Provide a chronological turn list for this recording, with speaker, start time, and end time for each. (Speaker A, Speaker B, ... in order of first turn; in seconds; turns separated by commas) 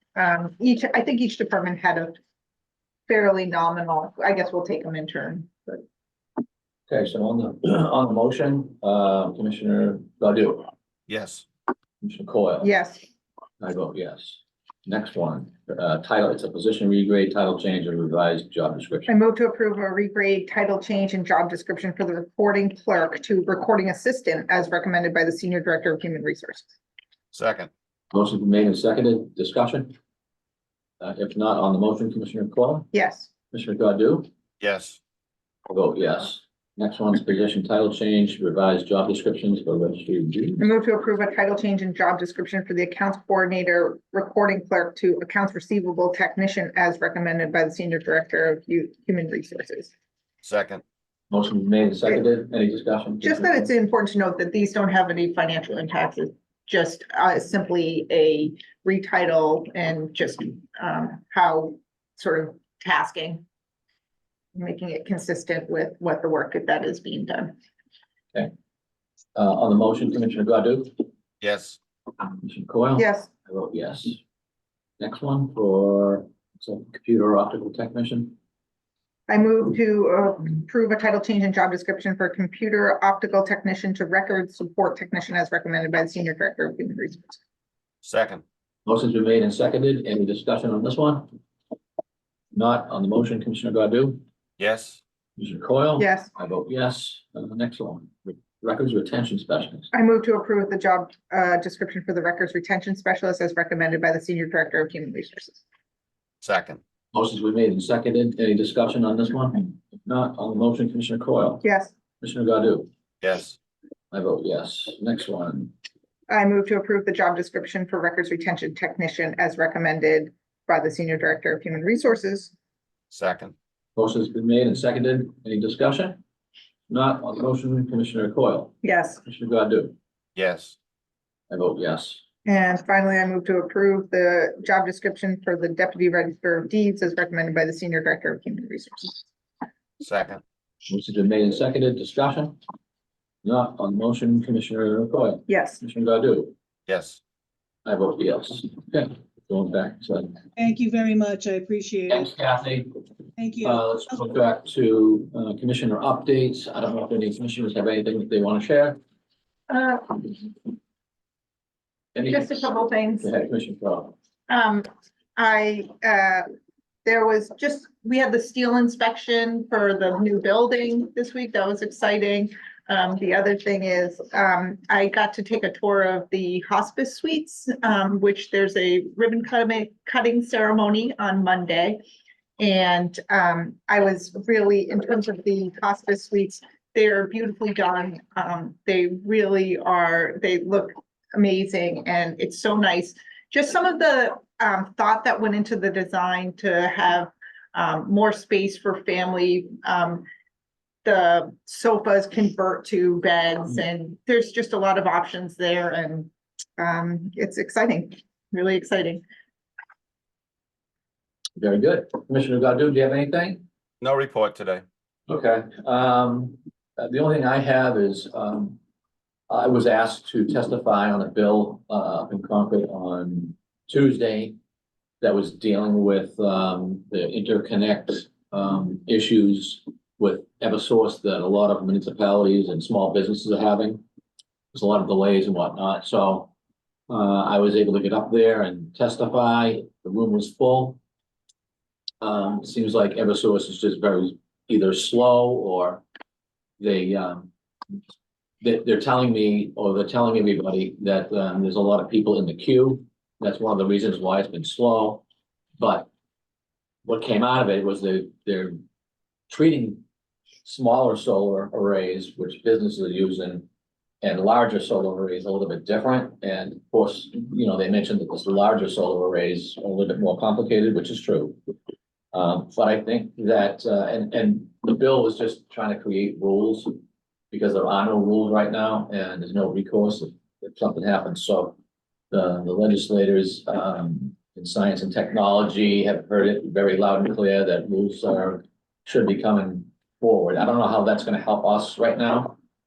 Speaker A: 0.2-2.1, Speaker A: 3.1-5.8, Speaker B: 6.9-10.7, Speaker C: 11.1-11.4, Speaker B: 12.0-12.7, Speaker A: 12.6-13.1, Speaker B: 13.6-19.1, Speaker A: 19.1-26.7, Speaker C: 27.3-27.7, Speaker B: 28.1-29.9, Speaker B: 31.0-32.9, Speaker A: 32.9-33.3, Speaker B: 33.5-34.3, Speaker C: 34.6-35.0, Speaker B: 35.7-40.7, Speaker A: 40.6-49.9, Speaker C: 50.4-50.8, Speaker B: 51.3-53.7, Speaker A: 53.2-63.4, Speaker A: 64.5-67.5, Speaker B: 69.3-70.9, Speaker C: 71.4-71.8, Speaker B: 72.2-74.2, Speaker A: 73.0-73.3, Speaker B: 75.0-78.4, Speaker A: 79.3-87.4, Speaker C: 88.0-88.4, Speaker B: 88.9-91.3, Speaker B: 92.5-94.2, Speaker C: 94.6-95.0, Speaker B: 95.4-99.9, Speaker A: 96.0-96.3, Speaker A: 99.9-105.6, Speaker C: 106.4-106.8, Speaker B: 107.1-111.6, Speaker A: 111.6-111.9, Speaker B: 112.2-112.9, Speaker C: 113.2-113.6, Speaker B: 114.1-115.7, Speaker A: 116.3-122.5, Speaker C: 123.1-123.5, Speaker B: 124.0-126.2, Speaker B: 126.9-129.9, Speaker A: 128.8-129.2, Speaker C: 130.4-130.8, Speaker B: 131.5-132.2, Speaker A: 132.4-139.2, Speaker C: 140.0-140.4, Speaker B: 140.9-142.6, Speaker B: 143.4-146.5, Speaker A: 145.5-145.8, Speaker C: 146.9-147.2, Speaker B: 147.8-150.4, Speaker D: 150.6-152.3, Speaker B: 152.1-153.0, Speaker D: 153.4-153.8, Speaker B: 153.6-159.0, Speaker A: 159.7-160.5, Speaker B: 162.2-162.7, Speaker A: 162.3-163.3, Speaker B: 163.2-164.2, Speaker A: 164.5-166.5, Speaker A: 167.1-182.0, Speaker A: 182.6-200.2, Speaker A: 201.0-209.2, Speaker B: 211.6-213.6, Speaker C: 214.0-214.8, Speaker B: 215.3-218.8, Speaker B: 219.5-224.6, Speaker B: 225.2-234.0, Speaker B: 234.7-236.5, Speaker B: 237.1-241.0, Speaker B: 242.2-246.0, Speaker B: 246.8-247.5, Speaker B: 248.6-255.2, Speaker B: 255.8-256.1, Speaker B: 257.1-258.8, Speaker B: 259.5-260.0, Speaker B: 260.6-263.7, Speaker B: 264.2-271.6, Speaker B: 272.3-276.9, Speaker B: 277.5-281.8, Speaker B: 282.3-292.6